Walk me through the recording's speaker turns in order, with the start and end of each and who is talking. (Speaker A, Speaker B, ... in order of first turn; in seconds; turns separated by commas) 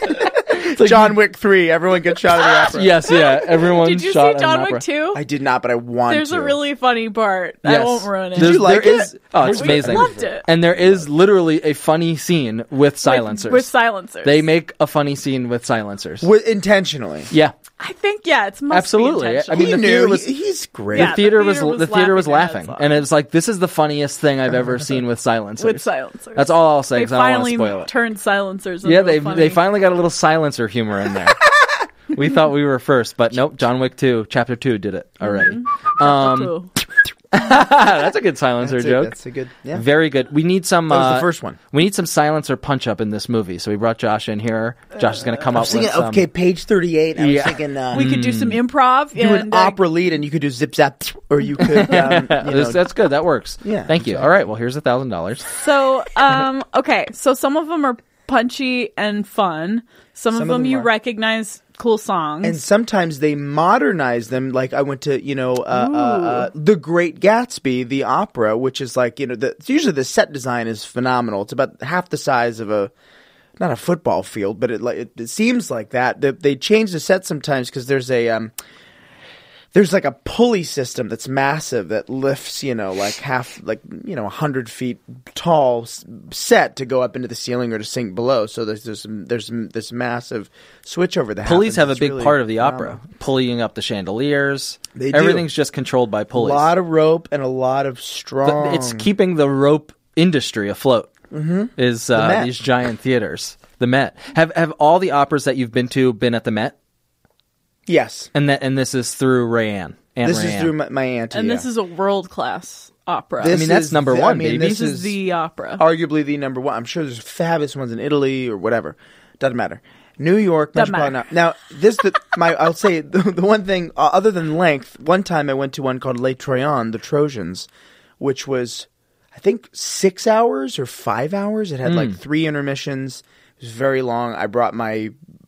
Speaker A: 0.4-3.0, Speaker B: 0.5-1.2, Speaker B: 2.6-4.8, Speaker C: 3.1-5.2, Speaker A: 5.1-6.6, Speaker C: 6.1-8.8, Speaker B: 7.7-13.7, Speaker A: 8.4-11.0, Speaker C: 9.4-10.5, Speaker C: 13.0-14.4, Speaker B: 14.2-16.3, Speaker A: 16.2-17.3, Speaker C: 17.8-19.8, Speaker B: 18.7-20.3, Speaker A: 19.5-21.3, Speaker B: 20.9-27.9, Speaker C: 20.9-23.0, Speaker C: 25.6-29.6, Speaker B: 28.8-31.5, Speaker B: 32.1-36.7, Speaker C: 35.2-36.7, Speaker B: 37.3-39.1, Speaker A: 38.6-39.8, Speaker B: 39.7-46.3, Speaker A: 40.9-41.6, Speaker A: 45.4-48.1, Speaker B: 47.2-48.6, Speaker C: 47.9-49.8, Speaker A: 49.2-52.8, Speaker B: 51.7-55.5, Speaker A: 53.6-54.3, Speaker C: 55.5-62.6, Speaker A: 60.3-60.9, Speaker A: 62.4-72.9, Speaker C: 65.7-66.5, Speaker A: 73.6-78.5, Speaker A: 79.7-93.0, Speaker B: 91.5-96.7, Speaker A: 95.0-95.5, Speaker A: 96.3-99.1, Speaker B: 98.5-101.1, Speaker A: 101.3-102.5, Speaker B: 101.8-106.7, Speaker A: 107.9-108.3, Speaker B: 108.3-110.7, Speaker A: 110.2-111.7, Speaker C: 111.3-113.6, Speaker A: 113.4-115.2, Speaker B: 113.5-114.9, Speaker C: 114.5-115.8, Speaker A: 115.8-127.7, Speaker C: 120.8-121.2, Speaker A: 128.2-135.1, Speaker B: 131.8-132.2